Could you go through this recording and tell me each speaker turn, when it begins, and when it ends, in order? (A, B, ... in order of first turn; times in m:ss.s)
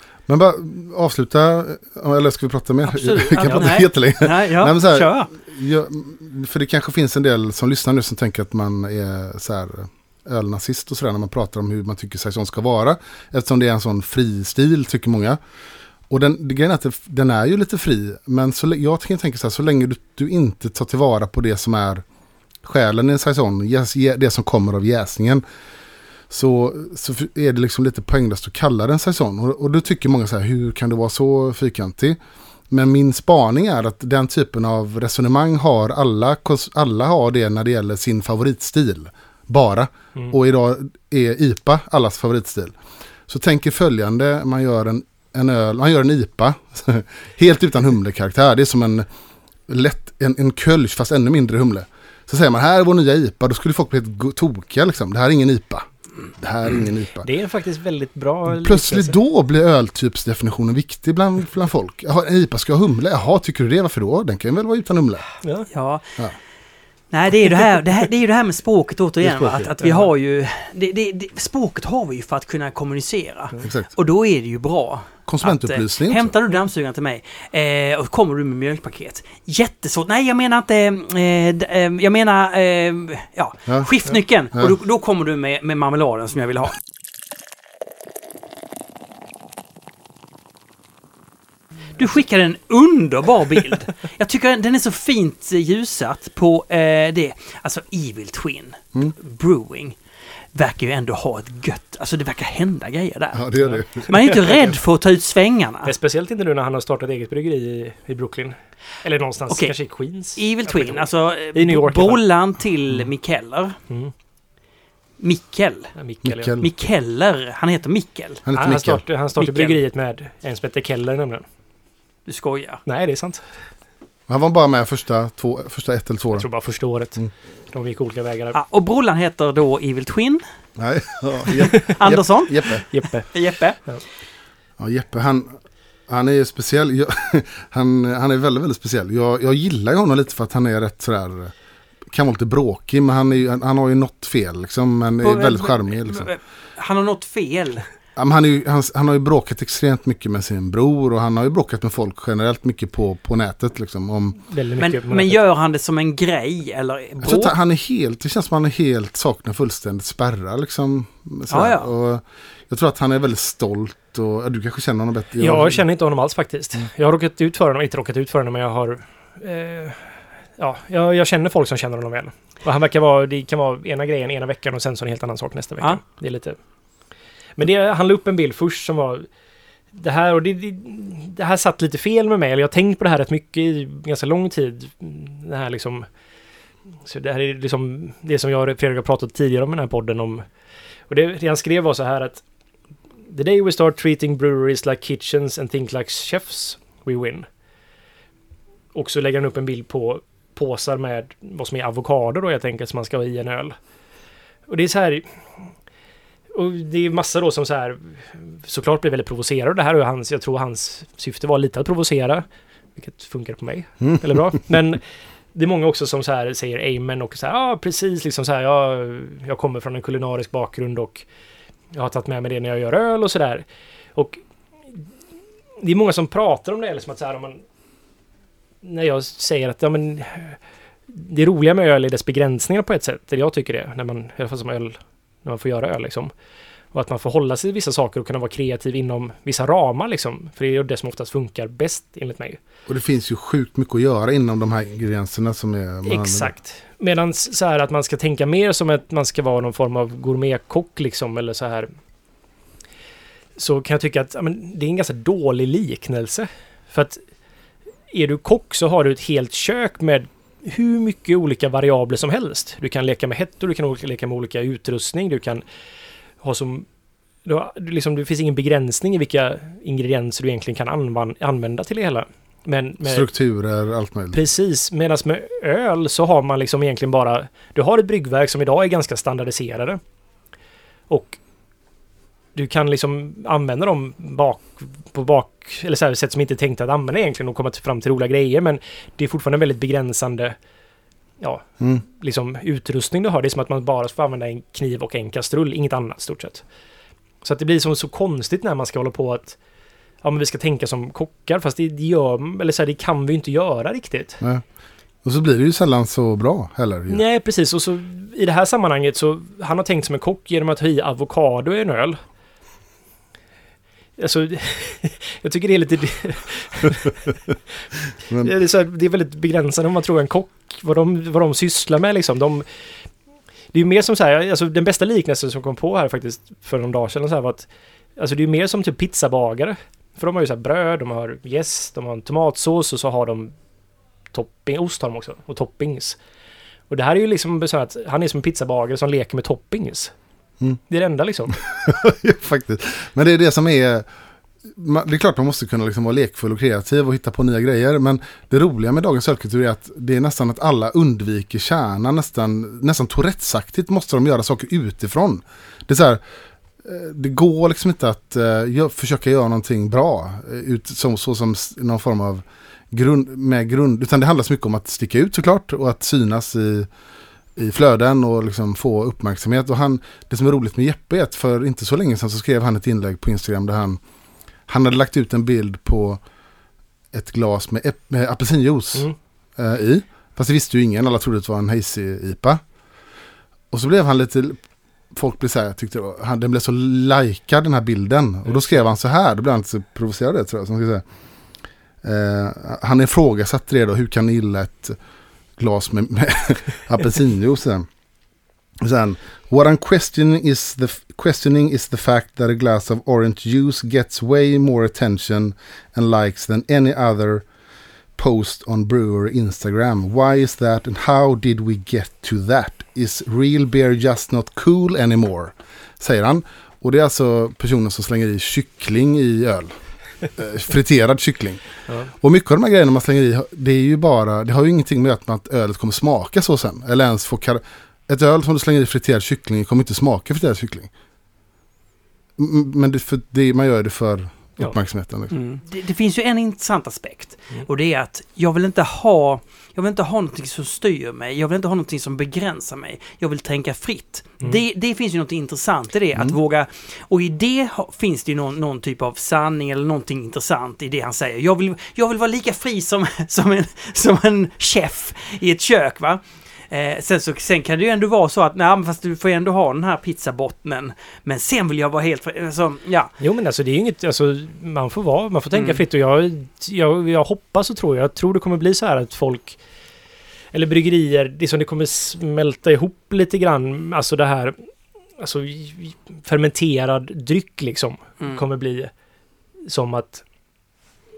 0:00.3-0:15.4 A
0:02.8-0:05.3 B
0:16.1-0:22.0 A
0:22.6-0:25.4 A
0:26.3-0:32.2 A
0:32.7-0:42.8 A
0:43.3-0:49.1 A
0:49.7-0:57.3 A
0:57.2-0:59.2 C
0:58.5-1:05.3 A
1:05.4-1:05.7 C
1:05.7-1:06.2 B
1:07.1-1:26.8 B
1:09.2-1:09.7 A
1:09.8-1:10.1 C
1:13.6-1:13.9 A
1:15.2-1:16.3 A
1:32.0-1:40.0 B
1:40.5-1:43.4 B
1:43.3-1:44.1 A
1:43.6-1:44.8 C
1:44.0-1:45.9 B
1:45.8-1:52.2 C
1:49.5-1:49.7 B
1:50.4-1:53.8 B
1:55.2-1:55.9 B
1:55.9-1:56.6 C
1:56.2-1:56.6 A
1:56.6-1:58.4 B
1:58.4-1:59.0 A
1:58.5-2:01.4 C
1:59.4-1:59.8 B
2:02.2-2:02.8 B
2:02.8-2:03.4 C
2:04.3-2:06.5 A
2:06.3-2:07.2 C
2:07.7-2:08.6 C
2:08.5-2:10.4 B
2:10.8-2:12.9 A
2:11.7-2:12.0 C
2:11.9-2:13.8 B
2:12.9-2:13.3 C
2:14.8-2:21.5 A
2:22.1-2:26.3 A
2:25.2-2:27.8 B
2:28.2-2:34.4 A
2:34.5-2:35.4 C
2:34.8-2:37.5 B
2:37.2-2:45.8 A
2:41.5-2:41.9 B
2:45.4-2:56.6 C
2:57.6-2:59.3 C
2:59.9-3:06.0 C
3:07.0-3:10.4 C
3:11.1-3:12.4 C
3:13.3-3:17.4 C
3:18.9-3:23.7 C
3:24.7-3:25.7 C
3:26.5-3:41.3 C
3:41.9-3:44.4 C
3:45.8-3:47.6 C
3:48.8-3:56.3 C
3:56.9-4:02.6 C
4:02.9-4:06.5 A
4:06.0-4:11.9 C
4:13.6-4:17.2 C
4:18.1-4:25.6 C
4:26.4-4:26.9 C
4:27.4-4:33.2 C
4:33.0-4:34.4 A
4:34.3-4:40.0 C
4:41.1-4:41.4 C
4:42.5-4:50.6 C
4:51.4-4:56.6 C
4:57.4-4:59.6 C
5:00.2-5:04.4 C
5:05.2-5:07.2 A
5:07.1-5:12.2 C
5:14.2-5:17.3 C
5:18.3-5:22.6 C
5:23.7-5:33.6 C
5:34.3-5:36.2 C
5:36.9-5:40.1 C
5:40.9-5:41.5 C
5:41.5-5:44.0 A
5:44.7-5:56.2 A
5:56.8-6:06.9 A
6:07.6-6:14.0 A
6:14.7-6:16.2 A
6:17.1-6:22.6 A
6:23.7-6:24.6 A
6:25.1-6:31.0 A
6:28.4-6:28.8 C
6:32.0-6:35.0 A
6:35.6-6:37.9 A
6:38.8-6:47.4 A
6:48.2-7:10.9 A
7:12.4-7:15.3 A
7:15.3-7:43.1 B
7:43.2-7:49.6 C
7:45.5-7:45.8 B
7:50.5-7:58.9 C
7:59.6-8:00.2 C